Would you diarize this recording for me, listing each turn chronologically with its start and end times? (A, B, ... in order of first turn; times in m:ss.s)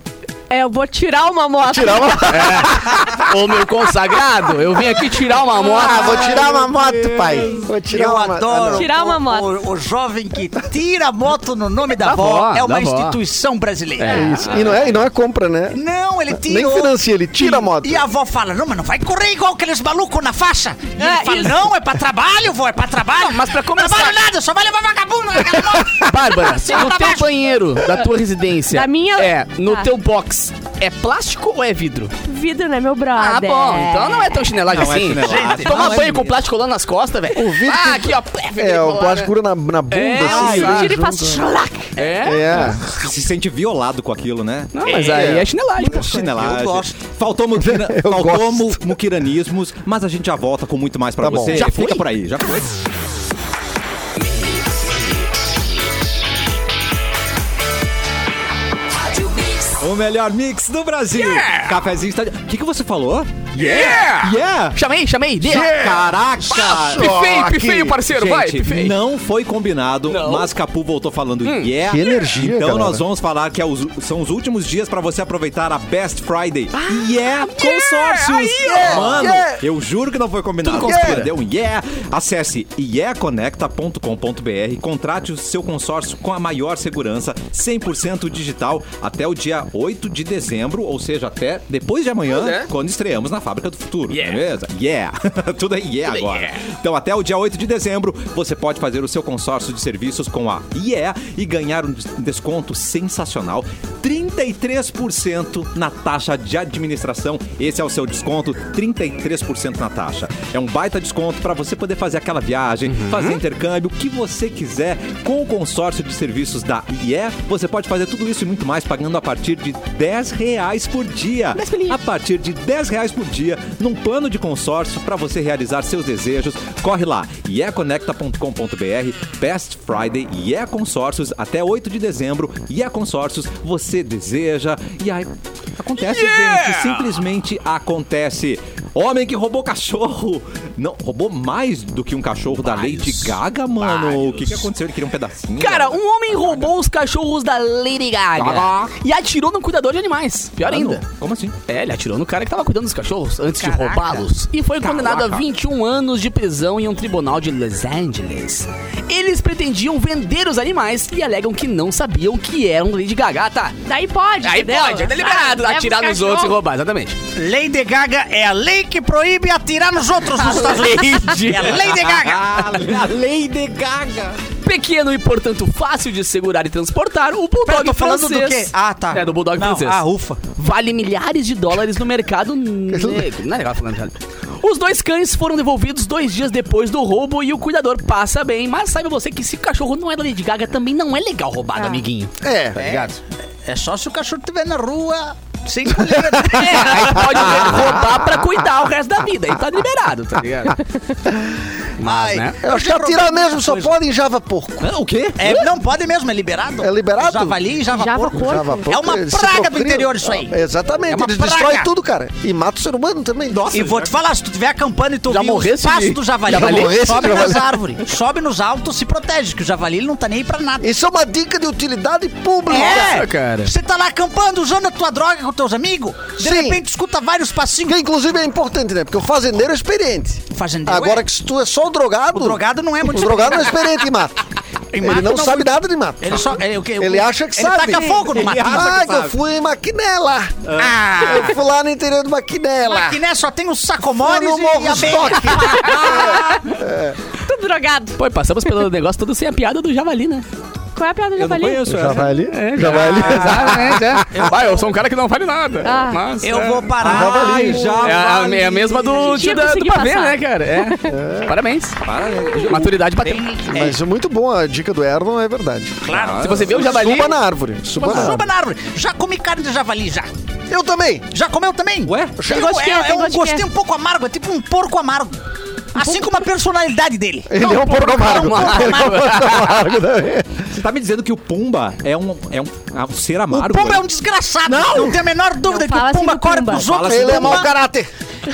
0:00.5-0:02.8 A
0:01.6-0:03.2 B
0:02.3-0:06.2 C
0:05.7-0:08.9 B
0:05.9-0:06.4 D
0:05.9-0:06.2 A
0:06.2-0:07.6 E
0:07.9-0:14.2 D
0:08.7-0:09.5 A
0:12.0-0:13.2 C
0:14.0-0:14.6 C
0:14.1-0:15.8 B
0:14.5-0:14.9 E
0:15.7-0:27.3 D
0:16.3-0:18.0 B
0:21.0-0:21.5 A
0:23.2-0:24.2 C
0:25.6-0:25.9 B
0:26.0-0:32.1 C
0:28.7-0:29.9 A
0:32.2-0:34.6 A
0:33.2-0:39.3 C
0:34.6-0:36.4 E
0:35.2-0:36.1 D
0:37.3-0:41.5 B
0:39.9-0:41.0 C
0:40.2-0:42.1 A
0:40.3-0:40.9 E
0:42.0-0:42.8 C
0:42.2-0:42.9 B
0:42.6-0:44.9 E
0:44.7-0:46.1 C
0:44.8-0:47.0 D
0:44.9-0:45.5 B
0:45.8-0:52.8 E
0:47.6-0:48.9 B
0:51.2-0:51.7 B
0:51.5-0:52.0 C
0:59.8-1:04.8 E
1:01.1-1:01.8 C
1:03.6-1:05.8 C
1:05.4-1:08.0 B
1:05.5-1:07.1 E
1:06.5-1:09.0 C
1:08.0-2:26.7 E
1:10.1-1:10.5 C
1:11.4-1:11.7 C
1:11.8-1:13.0 B
1:16.8-1:19.4 C
1:18.7-1:19.6 B
1:20.6-1:21.3 C
1:20.7-1:21.3 B
1:32.3-1:32.7 C
1:34.1-1:34.4 C
1:36.1-1:36.6 C
1:52.9-1:53.4 C
2:01.6-2:02.0 C
2:16.0-2:17.2 C
2:22.6-2:24.7 C
2:25.6-2:31.0 C
2:28.4-2:28.9 E
2:30.6-2:31.6 E
2:31.7-2:43.8 C
2:33.6-2:34.2 D
2:34.8-2:35.5 E
2:43.9-2:46.6 A
2:44.4-2:47.2 C
2:47.4-2:52.5 D
2:50.4-2:52.0 C
2:52.0-2:54.4 E
2:54.6-3:00.0 C
2:57.6-3:00.4 D
3:00.5-3:13.1 C
3:02.9-3:03.3 B
3:11.8-3:12.0 A
3:12.4-3:12.8 B
3:12.8-3:17.9 D
3:16.0-3:17.3 B
3:16.6-3:20.8 C
3:22.0-3:22.6 C
3:22.0-3:24.0 D
3:22.6-3:25.0 B
3:24.8-3:25.5 E
3:25.4-3:30.6 D
3:26.8-3:27.6 B
3:27.9-3:28.9 A
3:28.3-3:33.6 B
3:31.1-3:31.9 D
3:33.5-3:34.1 E
3:33.7-3:40.9 D
3:35.3-3:37.0 C
3:36.5-3:37.8 B
3:40.8-3:43.2 B
3:42.7-3:48.0 D
3:42.7-3:43.7 C
3:46.4-3:46.8 B
3:47.9-3:54.4 B
3:50.5-3:51.3 D
3:52.3-3:53.9 D
3:54.9-3:59.1 D
3:55.0-4:00.6 B
3:58.0-3:58.3 A
3:58.3-3:59.4 E
4:00.6-4:01.0 E
4:00.8-4:01.6 D
4:01.2-4:03.2 B
4:02.8-4:06.2 D
4:04.2-4:07.2 B
4:05.7-4:06.6 A
4:07.4-4:08.2 A
4:08.2-4:10.4 C
4:11.0-4:11.9 A
4:11.4-4:13.5 E
4:11.8-4:14.3 B
4:12.5-4:16.9 C
4:14.3-4:14.9 D
4:15.8-4:16.3 A
4:16.4-4:17.9 D
4:17.0-4:18.0 B
4:17.0-4:19.2 E
4:18.0-4:22.0 C
4:19.0-4:21.2 A
4:21.0-4:21.6 B
4:22.0-4:23.0 E
4:22.6-4:23.4 C
4:23.2-4:24.0 D
4:23.7-4:26.0 B
4:26.0-4:26.9 D
4:26.1-4:26.7 E
4:26.4-4:27.4 C
4:26.7-4:28.4 B
4:28.0-4:30.3 D
4:28.0-4:28.4 C
4:30.7-4:31.3 B
4:31.3-4:35.4 D
4:32.1-4:32.5 E
4:32.5-4:33.6 A
4:35.9-4:39.4 D
4:36.0-4:36.3 A
4:37.5-4:40.6 B
4:37.7-4:39.8 C
4:40.7-4:44.1 E
4:43.5-4:47.7 D
4:44.7-4:45.2 E
4:45.6-4:46.8 A
4:46.7-4:47.7 E
4:47.0-4:48.1 B